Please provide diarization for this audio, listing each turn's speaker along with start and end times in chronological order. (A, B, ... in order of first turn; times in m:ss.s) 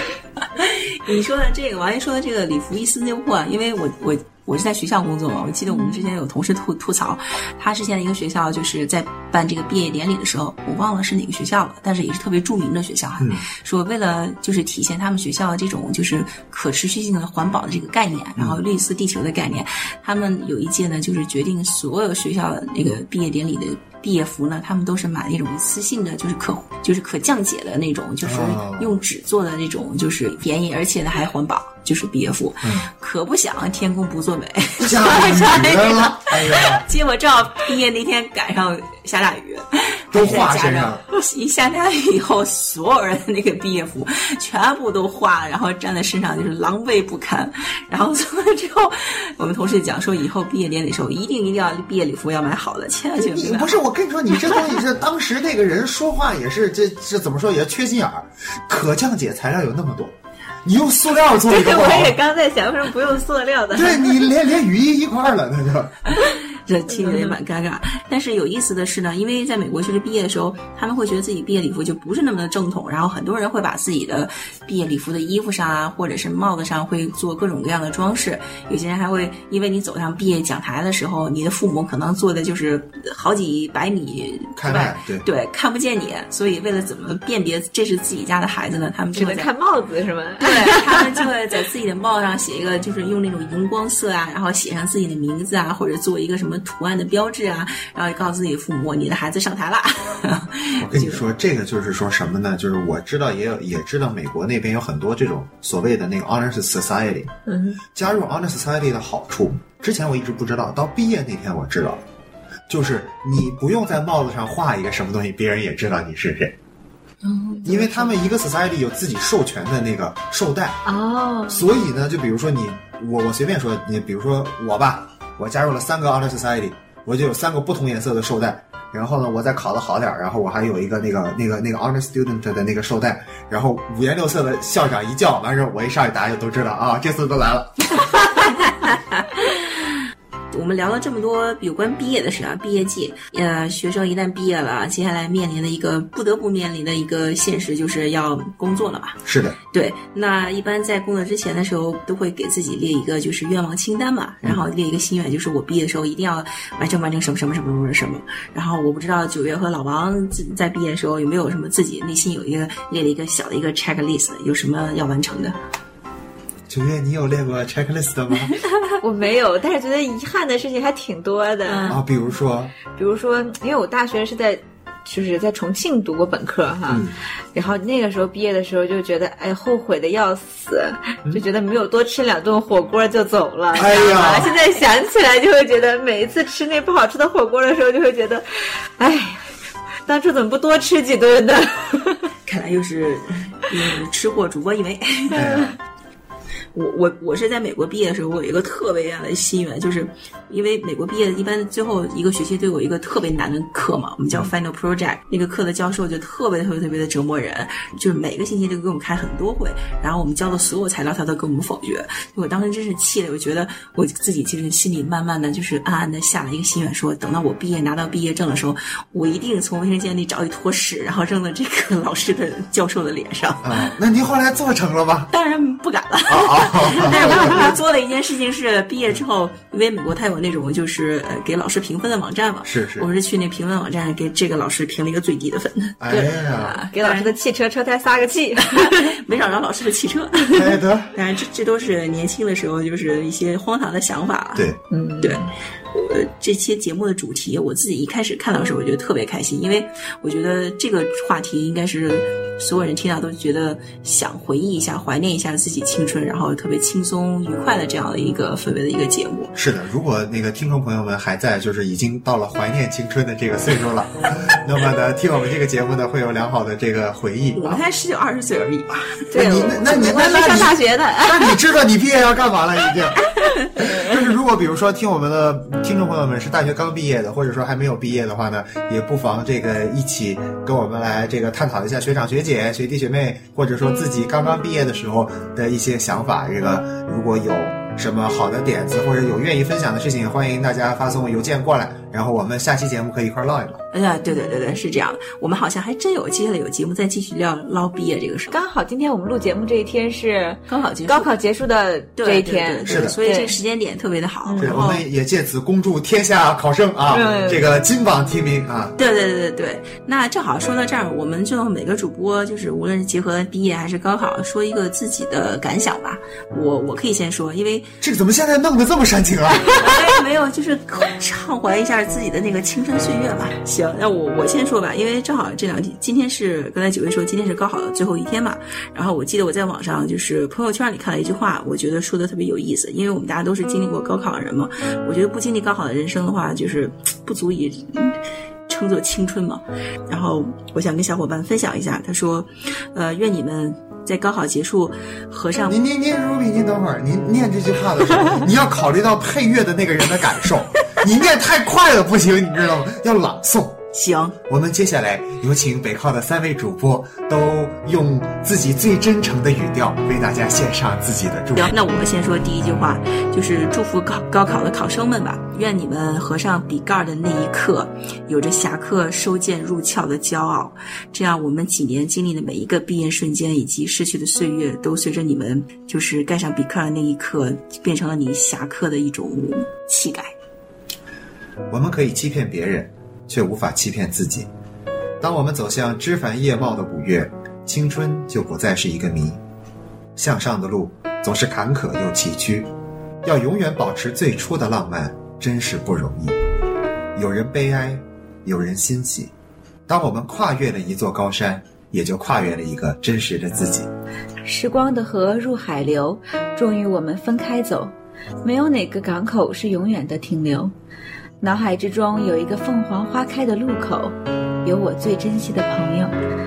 0:00.5-0:53.8 A
0:05.7-0:06.1 B
0:13.2-0:13.4 C
0:28.2-0:29.0 C
0:32.6-0:32.9 C
0:34.8-0:36.9 C
0:40.1-0:41.0 C
0:53.2-1:00.1 C
1:00.6-1:02.2 C
1:01.2-1:04.3 B
1:03.7-1:06.0 C
1:06.2-1:29.5 A
1:06.9-1:07.4 B
1:24.6-1:25.2 C
1:29.1-1:31.2 B
1:30.4-1:41.3 A
1:40.8-1:47.3 C
1:47.5-1:47.8 B
1:47.9-1:52.0 C
1:52.7-1:56.5 C
1:57.2-1:58.1 B
1:57.6-2:00.8 C
2:00.8-2:01.7 B
2:01.5-2:18.0 C
2:20.5-2:29.2 A
2:29.3-2:29.6 C
2:29.7-2:45.6 A
2:46.7-2:48.6 C
2:49.0-2:52.0 B
2:51.6-2:52.0 A
2:51.9-2:52.8 C
2:52.9-3:09.4 B
2:56.9-2:57.2 C
3:03.7-3:04.6 C
3:10.0-3:12.3 B
3:12.4-3:15.6 A
3:15.3-3:15.8 C
3:15.3-3:15.6 B
3:16.7-3:44.0 A
3:43.6-3:45.3 C
3:45.3-3:57.3 A
3:46.3-3:47.8 C
3:52.6-3:53.1 C
3:56.0-3:56.8 C
3:56.9-3:59.2 B
3:58.7-4:04.7 A
4:00.5-4:01.1 C
4:04.9-4:05.5 B
4:05.2-4:19.5 A
4:19.6-4:27.8 C
4:27.5-4:29.3 A
4:29.3-4:31.6 B
4:29.3-4:53.8 C
4:33.8-4:34.1 B
4:53.9-4:58.6 A
4:54.3-4:54.7 B
4:58.5-5:03.6 B
5:00.7-5:01.3 A
5:02.2-5:05.0 A
5:02.9-5:03.2 C
5:04.4-5:04.8 B
5:04.6-5:08.9 C
5:07.1-5:07.7 B
5:09.0-5:17.9 A
5:18.0-5:19.9 C
5:19.6-5:45.8 A
5:45.6-5:53.8 C
5:53.9-5:54.4 A
5:54.5-6:01.7 C
6:01.6-6:20.3 A
6:21.7-6:24.5 C
6:25.2-6:29.4 C
6:30.2-6:32.7 C
6:33.2-6:36.4 C
6:37.1-6:39.3 C
6:39.9-6:43.9 C
6:44.4-6:47.9 B
6:48.4-6:50.7 B
6:51.4-6:56.1 B